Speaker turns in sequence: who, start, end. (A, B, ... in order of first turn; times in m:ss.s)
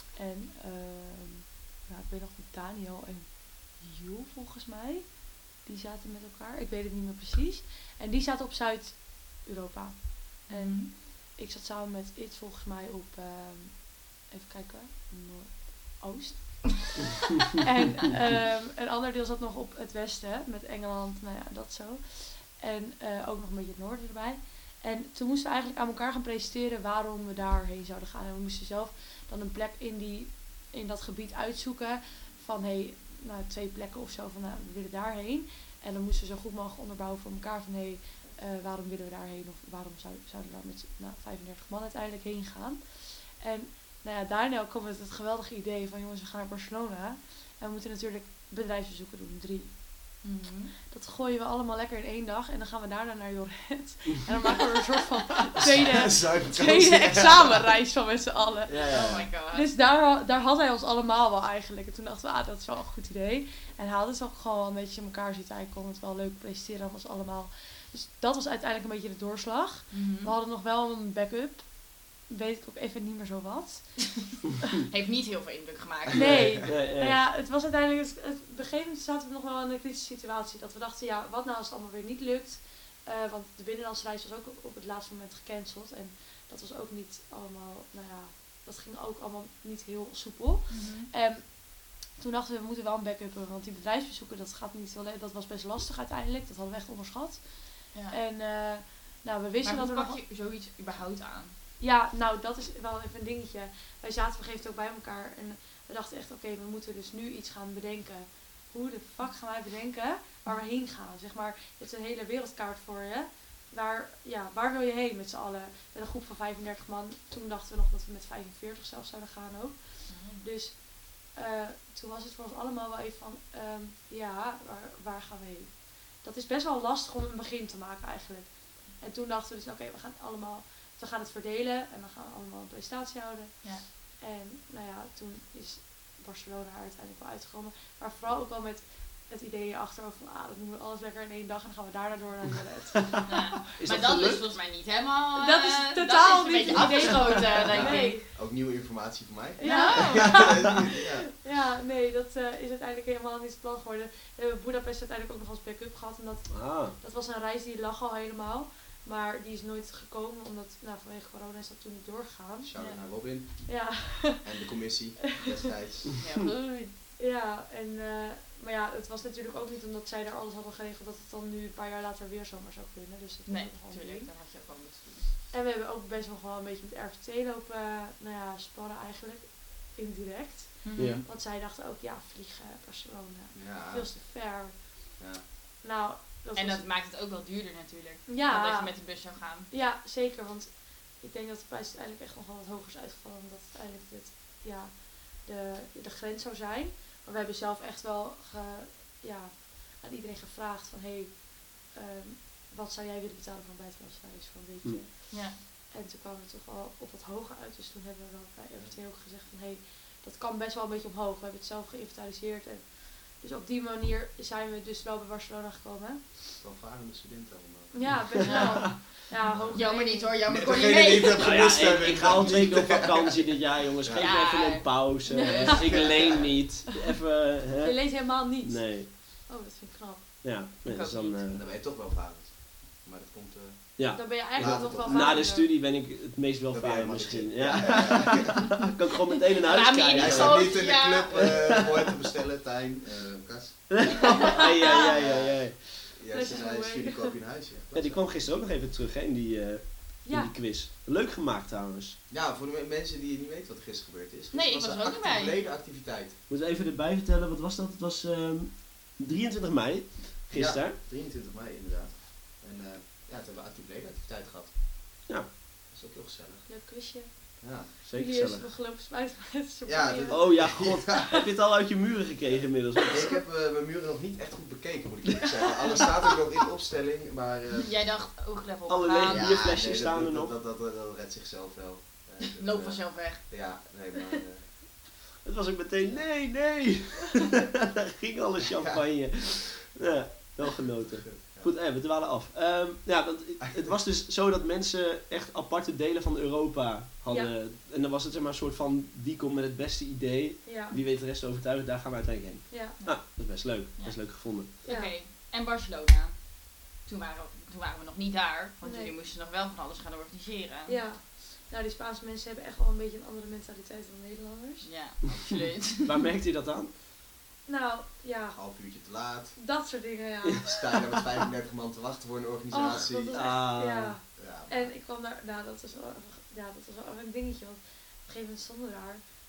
0:00.2-0:49.7 A
0:10.5-0:10.9 B
0:50.2-0:50.7 B
0:50.9-1:14.0 A
0:55.6-0:57.6 C
0:58.7-0:59.3 D
0:58.9-0:59.7 B
1:09.9-1:10.3 B
1:14.9-1:16.6 B
1:16.1-1:16.6 C
1:16.1-1:40.2 A
1:16.1-1:17.2 D
1:30.7-1:31.1 B
1:39.6-1:41.5 B
1:41.8-2:23.2 A
2:00.1-2:00.4 B
2:23.2-2:28.2 B
2:23.7-2:24.4 D
2:25.4-2:28.2 A
2:27.6-2:31.3 C
2:29.6-2:42.7 A
2:29.6-2:30.5 B
2:36.5-2:37.0 D
2:42.6-2:46.2 C
2:43.6-2:44.5 A
2:46.2-2:46.9 B
2:47.2-2:54.3 A
2:53.4-2:55.3 B
2:55.5-3:05.0 A
3:00.8-3:01.2 B
3:01.0-3:01.2 D
3:03.5-3:04.1 C
3:05.8-3:06.8 A
3:06.5-3:09.7 B
3:08.3-3:09.0 A
3:09.7-3:36.4 A
3:25.3-3:25.6 B
3:36.6-3:38.2 C
3:37.9-3:40.4 A
3:38.4-3:39.0 B
3:38.4-3:38.7 D
3:39.5-3:39.8 C
3:39.7-3:42.5 B
3:40.4-3:44.3 C
3:41.3-3:49.1 D
3:44.2-3:45.3 B
3:45.3-3:46.3 A
3:45.5-3:46.6 C
3:47.8-3:50.3 A
3:50.4-3:51.6 D
3:50.8-3:51.5 B
3:51.5-3:55.5 C
3:54.0-4:02.0 D
3:54.1-3:55.7 A
3:56.7-3:58.9 C
3:59.6-4:01.8 B
4:00.1-4:08.3 C
4:03.9-4:05.8 D
4:04.2-4:05.1 B
4:04.2-4:05.1 A
4:06.3-4:07.4 A
4:07.9-4:12.2 D
4:10.2-4:10.5 A
4:12.3-4:16.4 C
4:14.5-4:15.6 B
4:16.5-4:21.0 D
4:20.5-4:24.8 C
4:25.9-4:26.7 C
4:26.6-4:31.3 A
4:27.6-4:27.9 C
4:28.0-4:28.7 D
4:29.8-4:31.3 C
4:30.3-4:33.4 D
4:33.1-4:37.9 C
4:37.8-4:39.6 B
4:38.9-4:40.5 D
4:39.1-4:44.7 C
4:42.5-4:43.5 B
4:45.4-5:04.7 D
4:46.0-4:46.3 C
4:51.2-4:51.7 C
4:53.6-4:53.9 C
4:57.3-4:57.5 A
5:00.6-5:01.0 A
5:02.7-5:03.0 A
5:04.0-5:11.0 B
5:04.8-5:05.1 A
5:08.8-5:09.1 A
5:10.9-5:14.9 A
5:14.8-5:16.2 B
5:16.0-5:16.9 D
5:17.6-5:18.6 A
5:18.5-5:19.6 C
5:19.5-5:20.8 A
5:20.6-5:23.6 C
5:22.7-5:29.2 A
5:23.3-5:24.2 D
5:24.4-5:24.9 C